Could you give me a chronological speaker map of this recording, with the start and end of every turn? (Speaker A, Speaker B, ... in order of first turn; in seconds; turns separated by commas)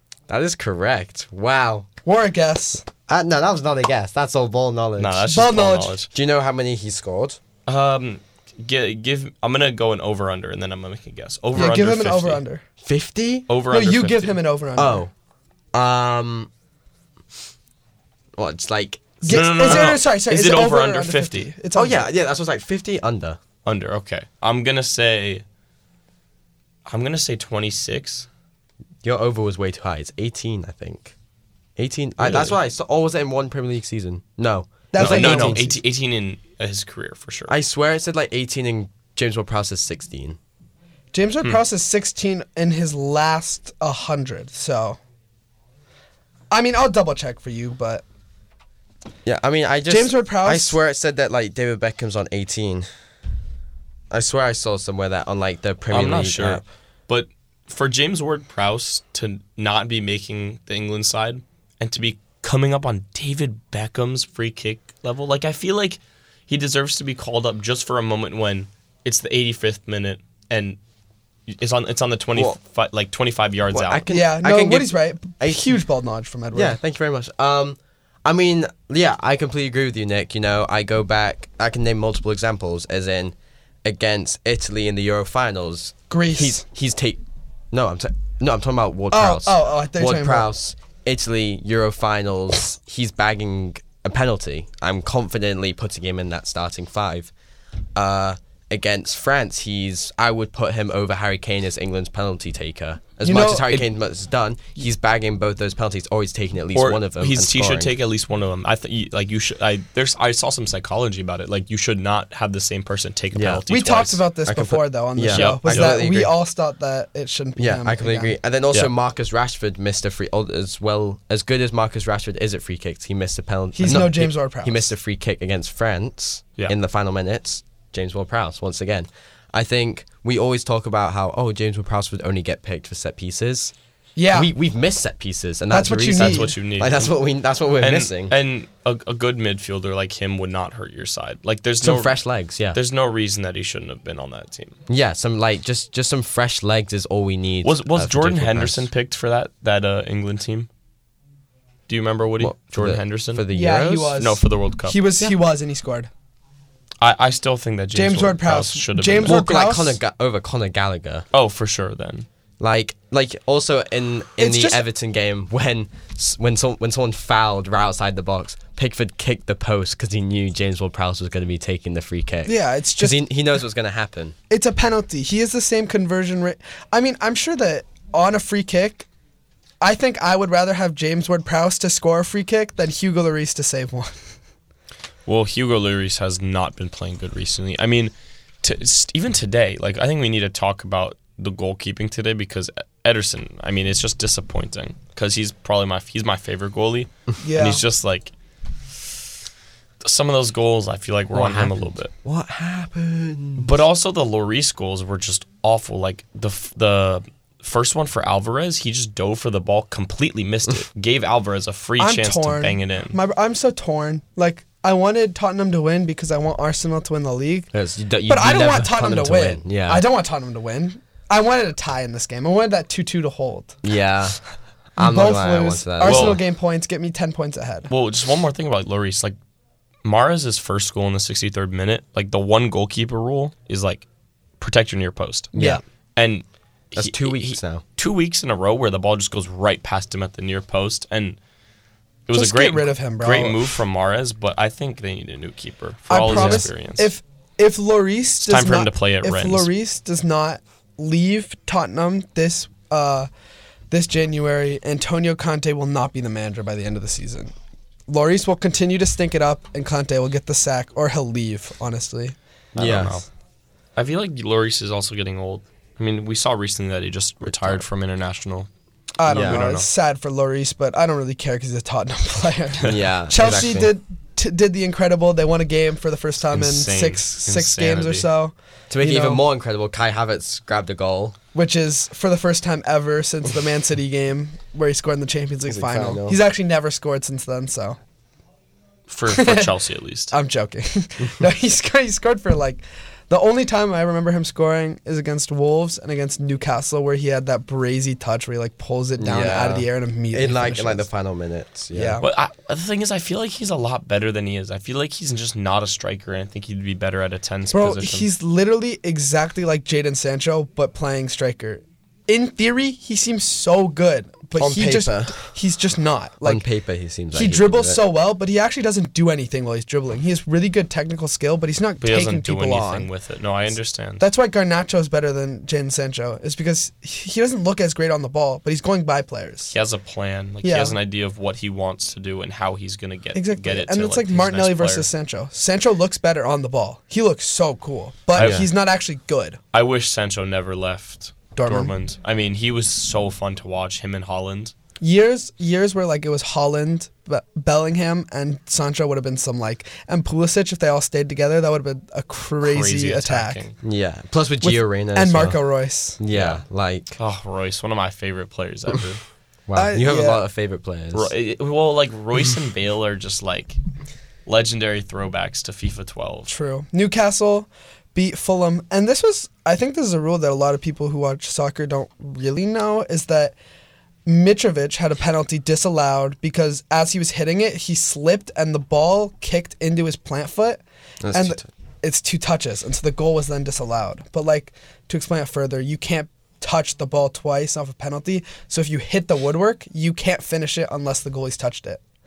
Speaker A: 0.3-1.9, Speaker B: 2.0-2.9, Speaker A: 3.1-5.3, Speaker C: 5.0-6.1, Speaker B: 5.3-6.0, Speaker A: 6.1-7.4, Speaker C: 7.7-12.4, Speaker B: 11.5-12.6, Speaker A: 12.8-13.5, Speaker C: 13.5-14.4, Speaker B: 13.7-15.0, Speaker A: 14.8-15.1, Speaker A: 15.7-16.5, Speaker A: 18.4-19.4, Speaker B: 19.2-22.1, Speaker C: 19.2-21.5, Speaker A: 21.7-23.4, Speaker C: 23.6-25.4, Speaker C: 26.9-28.3, Speaker A: 29.0-31.1, Speaker A: 31.8-35.6, Speaker C: 32.2-32.5, Speaker B: 34.9-35.8, Speaker C: 35.0-37.5, Speaker A: 37.5-40.4, Speaker B: 41.1-45.0, Speaker B: 46.5-48.0, Speaker A: 49.2-52.9, Speaker B: 49.9-50.8, Speaker A: 54.1-56.6, Speaker C: 55.9-70.8, Speaker C: 71.5-74.0, Speaker A: 73.7-75.7, Speaker B: 74.1-76.8, Speaker A: 76.5-97.3, Speaker B: 86.1-86.6, Speaker B: 89.1-90.5, Speaker A: 97.9-107.9, Speaker B: 103.2-103.8, Speaker C: 106.7-114.2, Speaker A: 113.3-113.6, Speaker B: 113.7-118.3, Speaker A: 114.5-116.3, Speaker C: 115.3-116.0, Speaker A: 117.6-133.7, Speaker B: 123.7-124.9, Speaker B: 134.2-134.5, Speaker A: 134.3-138.3, Speaker B: 135.7-136.5, Speaker C: 136.2-137.1, Speaker C: 137.8-142.2, Speaker A: 141.8-142.8, Speaker C: 142.7-144.8, Speaker A: 144.9-148.9, Speaker C: 147.6-150.7, Speaker C: 151.9-153.5, Speaker A: 152.4-154.2, Speaker B: 153.5-156.1, Speaker C: 154.2-155.0, Speaker C: 157.0-159.4, Speaker B: 157.9-160.0, Speaker A: 159.2-161.2, Speaker C: 161.3-162.3, Speaker A: 162.6-174.3, Speaker B: 164.4-164.8, Speaker B: 172.4-173.2, Speaker B: 174.5-179.1, Speaker B: 179.8-184.2, Speaker C: 185.2-198.3, Speaker B: 197.4-197.8, Speaker C: 200.0-202.1, Speaker A: 201.3-203.7, Speaker C: 203.6-213.2, Speaker B: 212.0-217.7, Speaker A: 217.7-220.0, Speaker B: 218.3-223.8, Speaker A: 223.8-224.4, Speaker A: 224.9-226.4, Speaker B: 225.0-227.9, Speaker C: 226.0-226.4, Speaker C: 227.9-229.4, Speaker C: 230.0-234.1, Speaker C: 234.6-235.5, Speaker A: 235.5-235.8, Speaker B: 235.5-235.8, Speaker C: 236.2-241.4, Speaker A: 236.9-237.8, Speaker C: 242.3-247.1, Speaker B: 242.3-243.8, Speaker B: 246.1-253.3, Speaker A: 246.3-246.7, Speaker C: 248.4-249.7, Speaker B: 253.9-257.5, Speaker B: 258.1-262.4, Speaker A: 262.7-263.2, Speaker C: 262.8-263.2, Speaker C: 263.9-268.7, Speaker A: 267.4-267.8, Speaker B: 269.2-279.4, Speaker A: 269.3-269.6, Speaker C: 269.3-269.9, Speaker A: 272.8-273.9, Speaker C: 276.5-278.3, Speaker A: 278.9-281.4, Speaker B: 281.5-288.0, Speaker A: 285.7-286.4, Speaker C: 289.1-290.3, Speaker B: 289.3-289.7, Speaker B: 290.3-301.1, Speaker A: 299.2-302.2, Speaker B: 301.9-302.3, Speaker C: 302.2-308.3, Speaker B: 307.7-316.6, Speaker A: 314.6-315.3, Speaker A: 316.4-318.0, Speaker B: 317.3-323.1, Speaker C: 322.0-324.2, Speaker B: 324.2-329.7, Speaker C: 329.7-335.1, Speaker B: 330.6-331.0, Speaker B: 333.3-339.6, Speaker C: 338.3-338.6, Speaker A: 338.4-338.7, Speaker C: 339.7-344.7, Speaker B: 341.5-341.9, Speaker B: 345.0-353.6, Speaker C: 352.6-353.7, Speaker A: 353.8-355.6, Speaker B: 354.6-356.2, Speaker A: 356.2-357.1, Speaker C: 356.3-356.6, Speaker C: 357.1-359.2, Speaker A: 359.7-361.3, Speaker B: 359.7-360.4, Speaker C: 361.1-363.8, Speaker C: 364.4-366.5, Speaker B: 366.5-373.5, Speaker B: 374.2-380.8, Speaker A: 381.2-381.7, Speaker B: 381.3-392.0